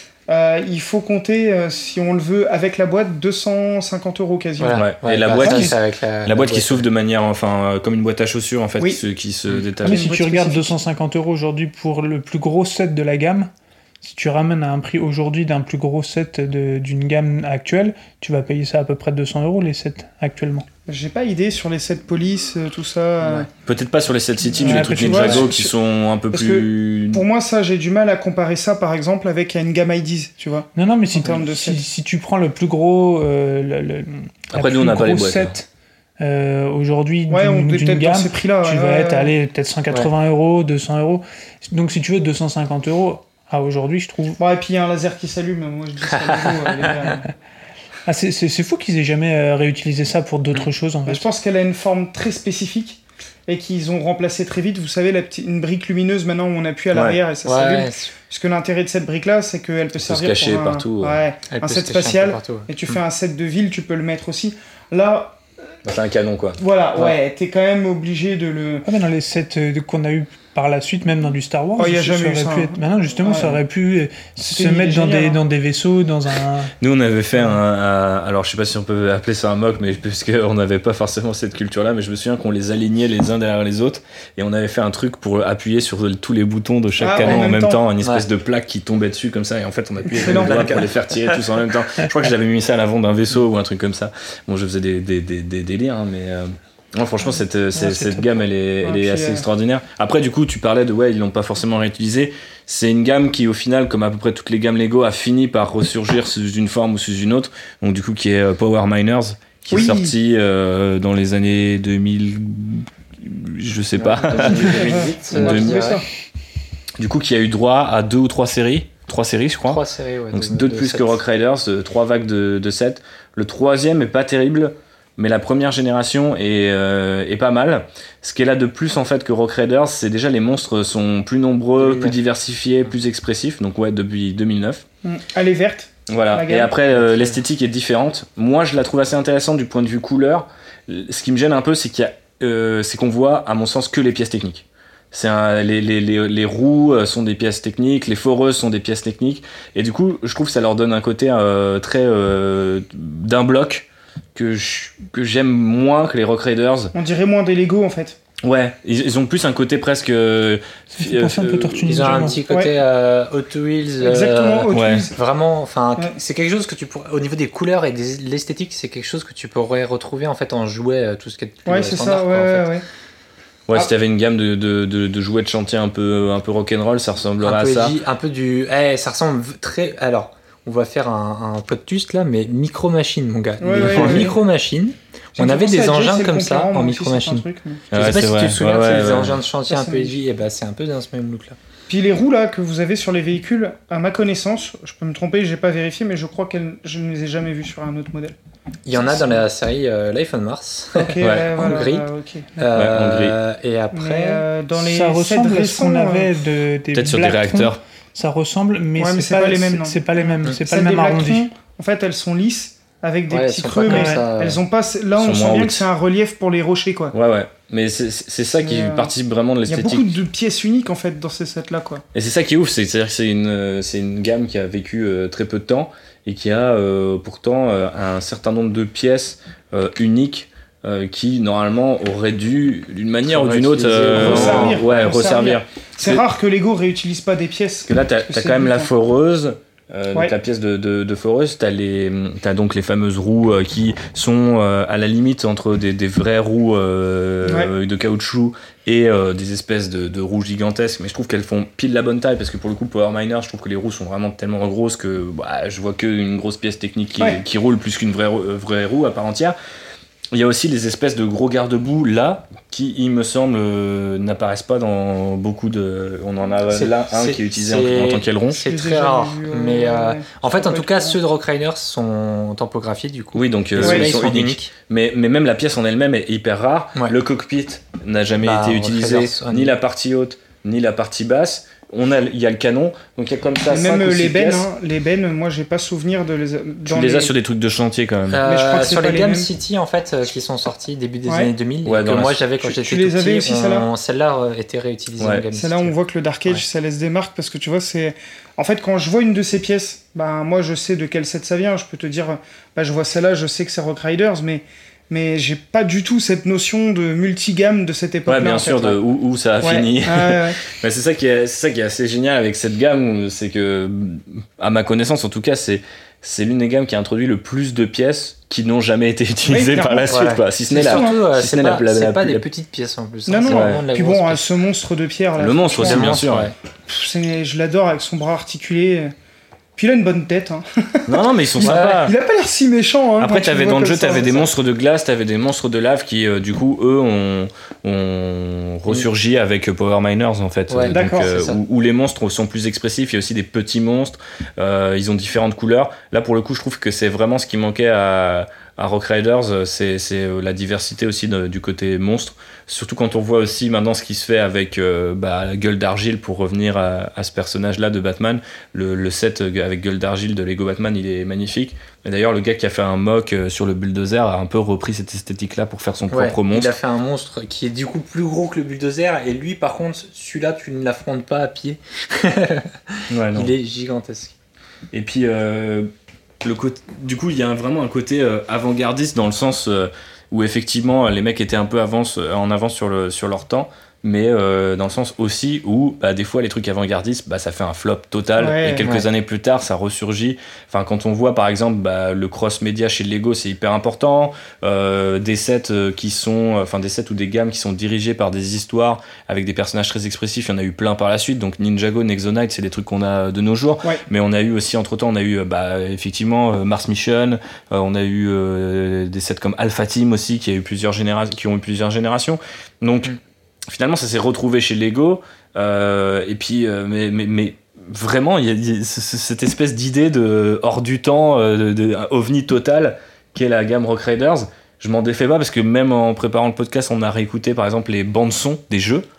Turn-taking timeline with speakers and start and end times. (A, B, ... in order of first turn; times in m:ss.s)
0:00.3-0:05.7 A
0:04.6-0:06.8 B
0:04.8-0:10.1 C
0:09.8-0:10.8 A
0:09.8-0:13.5 D
0:14.0-0:20.7 D
0:20.9-0:23.5 A
0:23.6-0:27.2 C
0:24.6-0:25.7 A
0:24.6-0:25.5 D
0:26.3-0:31.8 A
0:30.8-0:35.7 D
0:34.5-0:35.6 C
0:36.2-0:44.4 D
0:37.3-0:39.3 A
0:44.4-0:47.2 A
0:48.0-0:51.2 D
0:51.0-1:05.4 A
0:56.9-0:57.2 C
0:57.4-0:58.1 B
1:00.0-1:01.2 C
1:01.5-1:02.7 B
1:05.8-1:06.6 C
1:06.6-1:08.8 A
1:08.8-1:16.7 D
1:11.8-1:13.6 A
1:14.4-1:15.4 A
1:16.8-1:55.9 C
1:27.0-1:27.8 A
1:27.2-1:27.5 B
1:28.0-1:28.2 B
1:30.2-1:30.8 A
1:30.2-1:31.4 B
1:37.7-1:38.3 D
1:38.8-1:39.4 A
1:49.7-1:50.1 A
1:54.0-1:56.0 B
1:54.4-1:56.0 A
1:57.0-2:14.8 C
1:59.6-2:01.2 B
2:11.8-2:12.1 B
2:15.0-2:16.7 A
2:16.1-2:36.9 C
2:36.9-2:38.2 A
2:38.4-2:42.4 C
2:41.0-2:42.4 D
2:41.9-2:52.7 B
2:42.5-2:42.7 A
2:44.0-2:45.2 A
2:44.7-2:45.1 C
2:51.6-2:52.8 A
2:53.7-2:58.0 C
2:57.4-3:11.6 B
3:03.6-3:04.4 A
3:03.8-3:04.3 C
3:05.3-3:07.8 A
3:07.9-3:09.4 C
3:08.8-3:09.1 A
3:09.7-3:10.1 A
3:11.9-3:18.4 A
3:18.8-3:22.1 B
3:18.9-3:19.4 A
3:20.9-3:22.6 A
3:21.2-3:21.8 C
3:22.6-3:24.4 B
3:22.7-3:23.4 C
3:23.9-3:26.3 A
3:24.8-3:31.5 D
3:26.9-3:27.8 C
3:29.0-3:37.1 A
3:33.3-3:34.6 B
3:33.9-3:34.2 D
3:35.2-3:35.8 C
3:37.1-3:40.1 C
3:38.6-3:39.1 A
3:39.7-3:42.0 A
3:42.1-3:56.2 C
3:53.3-3:54.8 B
3:54.1-3:58.9 A
3:57.9-4:19.6 C
4:07.4-4:07.7 A
4:20.3-4:28.6 C
4:26.7-4:34.7 B
4:28.7-4:31.2 A
4:33.3-4:44.7 C
4:33.8-4:34.1 A
4:38.4-4:39.7 B
4:43.7-4:47.3 A
4:46.9-4:48.4 C
4:48.3-4:55.9 B
4:48.4-4:49.5 A
4:51.2-4:51.5 A
4:51.8-4:52.4 C
4:52.6-4:53.9 A
4:55.5-5:09.0 A
5:08.2-5:22.4 C
5:09.6-5:10.6 A
5:19.5-5:21.2 A
5:20.1-5:24.5 B
5:23.3-5:26.2 A
5:23.5-5:23.8 C
5:25.4-5:26.5 C
5:25.8-5:26.5 B
5:26.9-5:29.1 A
5:29.8-5:34.5 A
5:31.1-5:32.1 C
5:31.6-5:32.0 B
5:33.2-6:06.7 C
5:40.7-5:41.6 B
5:40.9-5:41.3 A
6:06.1-6:14.3 B
6:13.1-6:13.5 C
6:14.9-6:15.9 C
6:16.4-6:53.1 C
6:28.4-6:28.9 A
6:53.7-7:09.0 C